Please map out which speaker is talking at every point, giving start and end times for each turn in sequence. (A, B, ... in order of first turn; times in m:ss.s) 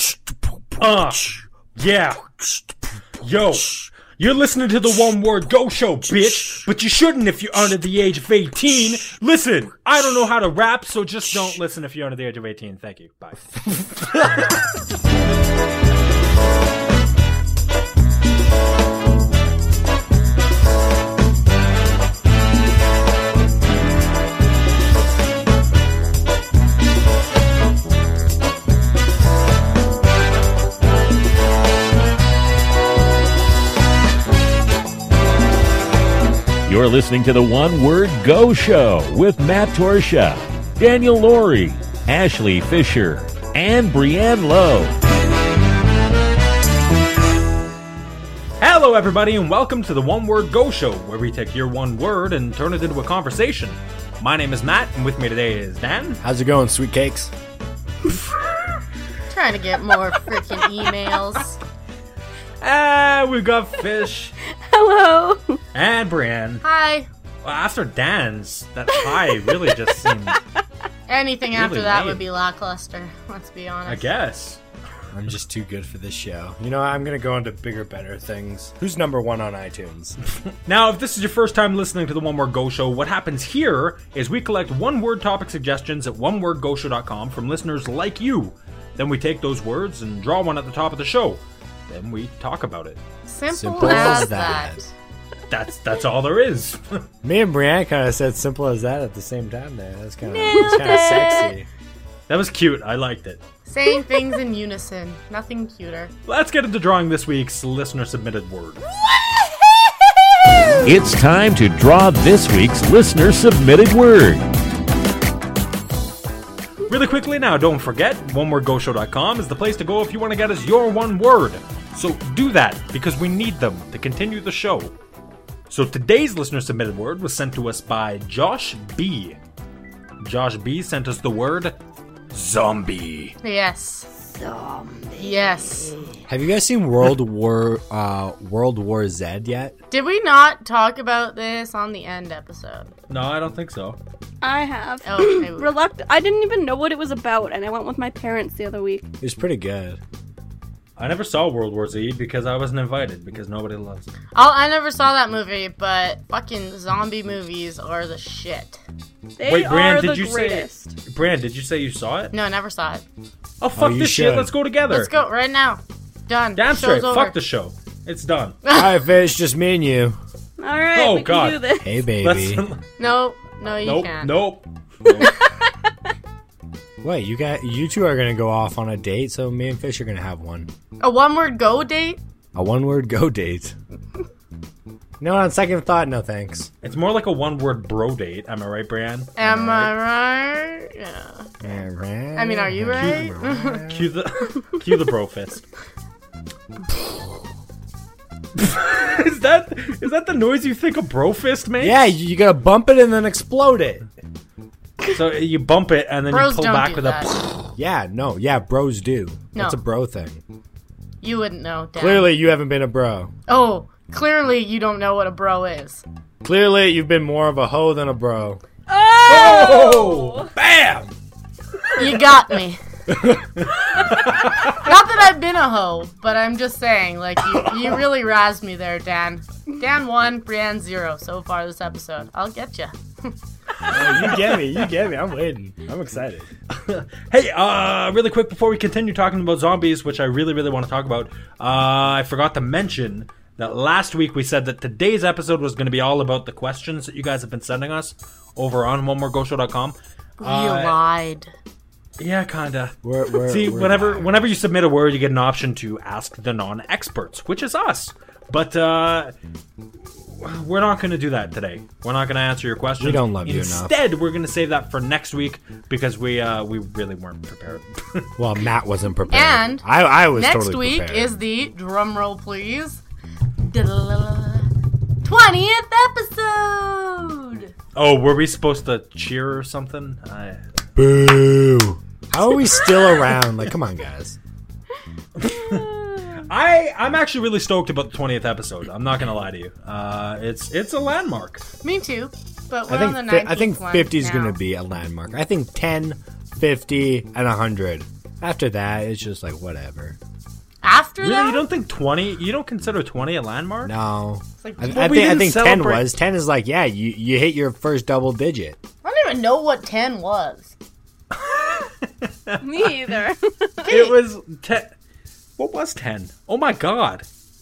0:00.8-0:02.2 A
0:03.2-0:14.5 A
0:36.7-0:45.0 B
0:48.6-0:56.2 A
0:56.2-0:57.3 C
0:59.3-1:01.6 D
1:02.6-1:04.3 A
1:04.5-1:05.6 E
1:05.7-1:06.6 A
1:06.6-1:07.1 D
1:07.4-1:10.4 A
1:09.2-1:09.6 E
1:11.1-1:14.1 D
1:11.5-1:12.2 A
1:13.9-1:14.6 A
1:15.1-1:20.2 C
1:20.7-1:33.0 A
1:33.3-1:34.9 D
1:33.5-1:34.8 C
1:33.8-1:34.3 A
1:35.5-1:37.0 A
1:37.2-1:41.7 C
1:40.3-1:41.5 E
1:42.3-1:43.4 A
1:43.7-1:46.1 D
1:46.3-1:48.8 A
1:50.8-1:54.5 B
1:56.9-2:04.9 A
2:05.7-2:09.4 A
2:10.2-2:11.8 A
2:12.3-2:13.4 A
2:13.4-2:14.1 D
2:15.2-2:16.1 D
2:16.3-2:19.8 C
2:19.9-2:22.9 D
2:23.1-2:24.0 A
2:24.4-2:29.1 E
2:25.1-2:25.7 D
2:29.2-2:30.0 C
2:31.0-2:34.1 A
2:34.3-2:38.8 D
2:39.4-2:41.0 E
2:39.4-2:42.3 A
2:42.3-2:43.0 D
2:43.6-2:45.1 A
2:43.8-2:44.5 C
2:44.9-2:47.3 D
2:46.6-2:48.6 A
2:48.6-2:48.9 D
2:48.7-2:50.2 C
2:50.6-2:51.9 E
2:50.9-2:51.7 A
2:51.8-2:52.7 C
2:52.2-2:52.9 A
2:53.0-2:54.4 D
2:53.8-2:55.3 A
2:57.0-3:00.7 C
3:01.0-3:02.2 D
3:02.5-3:03.8 C
3:05.2-3:06.7 C
3:06.8-3:09.5 A
3:09.4-3:11.8 D
3:09.4-3:09.9 C
3:11.6-3:14.1 C
3:12.3-3:13.9 D
3:13.0-3:13.2 A
3:13.9-3:15.7 A
3:18.6-3:22.1 A
3:21.8-3:24.1 C
3:25.1-3:27.4 A
3:26.3-3:27.4 D
3:27.8-3:30.4 C
3:31.2-3:32.3 D
3:32.0-3:33.3 C
3:33.5-3:36.0 D
3:36.4-3:38.6 C
3:38.9-3:40.5 E
3:39.2-3:41.1 A
3:41.8-3:42.2 A
3:42.0-3:42.8 D
3:43.6-3:44.9 A
3:44.7-3:53.3 D
3:53.9-3:56.5 C
3:53.9-3:54.5 A
3:56.7-4:11.0 A
4:10.4-4:11.5 D
4:12.2-4:19.3 A
4:13.0-4:14.5 C
4:20.2-4:28.4 A
4:23.0-4:23.9 C
4:28.4-4:31.4 C
4:29.3-4:33.0 D
4:33.6-4:34.7 D
4:35.2-4:37.7 D
4:37.9-4:40.6 A
4:41.0-4:44.4 C
4:45.4-4:45.9 A
4:46.4-4:51.6 A
4:51.8-4:54.6 D
4:52.9-5:00.2 C
5:00.8-5:01.6 D
5:01.2-5:03.9 A
5:03.8-5:08.8 C
5:04.6-5:05.1 D
5:04.9-5:06.1 A
5:09.0-5:10.7 D
5:11.3-5:13.1 A
5:12.6-5:14.1 E
5:13.8-5:14.9 A
5:15.6-5:17.2 A